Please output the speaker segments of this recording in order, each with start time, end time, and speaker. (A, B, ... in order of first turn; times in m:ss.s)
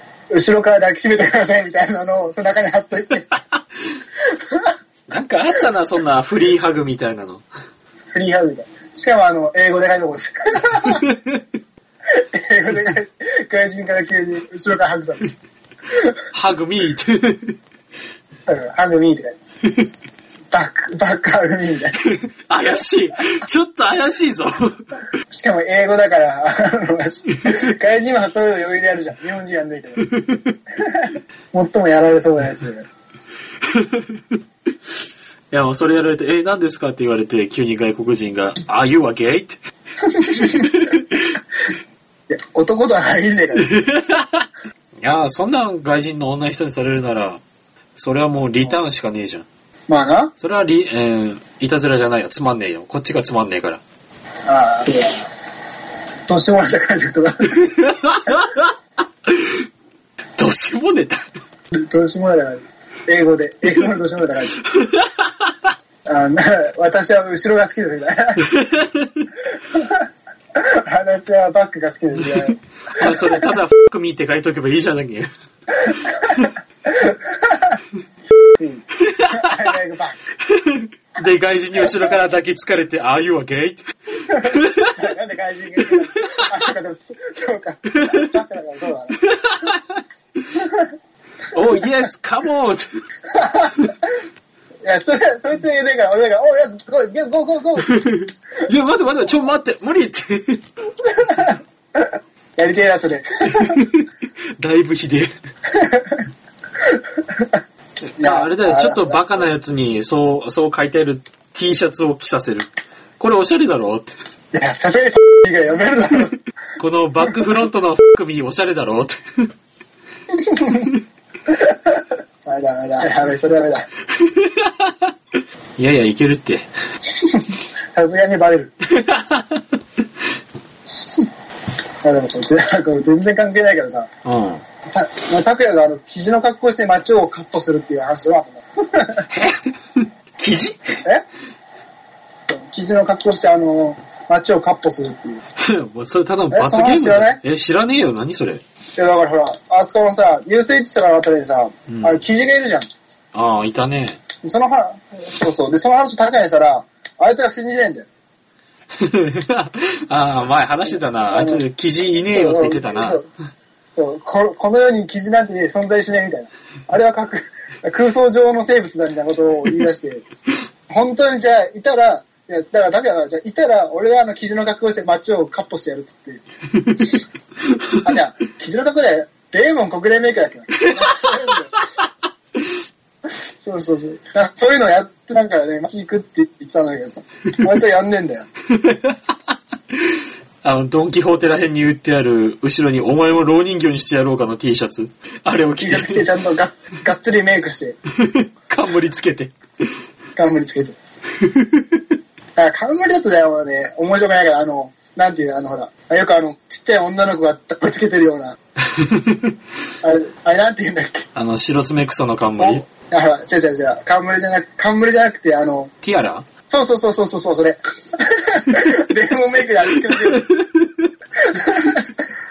0:00.3-0:03.3 A
0:05.1-0:07.4 B
0:08.1-0:11.0 A
0:10.8-0:11.4 B
0:12.1-0:15.3 A
0:16.3-0:17.5 B
0:18.5-0:19.4 A
0:20.5-0:22.0 A
0:22.0-0:24.8 B
0:25.3-0:30.1 A
0:30.2-0:30.5 B
0:30.8-0:32.9 A
0:33.7-0:34.2 B
0:35.5-0:39.6 B
0:40.2-0:40.8 A
0:42.3-0:43.8 A
0:43.6-0:44.5 B
0:45.0-0:47.4 B
0:48.0-0:49.4 B
0:49.9-0:50.3 A
0:50.4-0:53.8 B
0:54.4-0:55.3 A
0:56.3-0:57.7 A
0:57.6-0:58.7 B
0:59.3-0:59.6 B
1:00.4-1:01.2 B
1:01.7-1:04.6 A
1:04.7-1:05.5 B
1:06.0-1:08.5 A
1:08.4-1:09.3 B
1:09.7-1:10.0 A
1:10.5-1:13.5 A
1:12.2-1:15.3 B
1:15.8-1:17.8 A
1:18.6-1:20.2 A
1:19.0-1:19.7 B
1:20.4-1:25.0 B
1:24.3-1:29.3 A
1:25.9-1:26.4 B
1:28.0-1:28.3 B
1:29.2-1:30.0 B
1:31.5-1:32.8 B
1:33.3-1:33.9 A
1:34.8-1:38.0 A
1:37.8-1:40.6 B
1:41.1-1:43.8 A
1:43.5-1:45.3 B
1:45.7-1:46.2 A
1:46.9-1:47.4 A
1:48.1-1:54.1 B
1:48.2-1:49.2 A
1:54.5-1:56.4 A
1:56.8-1:59.2 B
2:00.4-2:01.0 A
2:01.5-2:03.9 A
2:04.2-2:05.1 B
2:05.8-2:06.7 B
2:07.9-2:08.7 A
2:08.9-2:09.6 B
2:12.0-2:14.1 A
2:14.2-2:14.6 B
2:14.9-2:19.3 A
2:19.3-2:20.8 B
2:22.5-2:25.4 A
2:25.6-2:28.6 B
2:26.5-2:27.4 A
2:29.0-2:32.9 A
2:31.9-2:32.2 B
2:33.3-2:34.2 B
2:34.4-2:38.1 A
2:39.0-2:43.2 B
2:40.8-2:41.6 A
2:42.3-2:43.3 A
2:44.0-2:50.2 A
2:50.9-2:56.4 A
2:58.0-3:01.8 A
3:00.8-3:01.6 B
3:03.6-3:08.5 A
3:08.7-3:09.2 B
3:10.6-3:16.3 B
3:15.8-3:18.0 A
3:18.2-3:19.5 B
3:20.4-3:21.0 A
3:21.4-3:22.0 B
3:22.6-3:28.6 A
3:28.9-3:29.5 B
3:30.0-3:31.3 A
3:31.4-3:32.8 B
3:32.6-3:35.9 A
3:36.0-3:36.5 B
3:36.7-3:40.5 A
3:40.3-3:40.8 B
3:41.5-3:42.1 A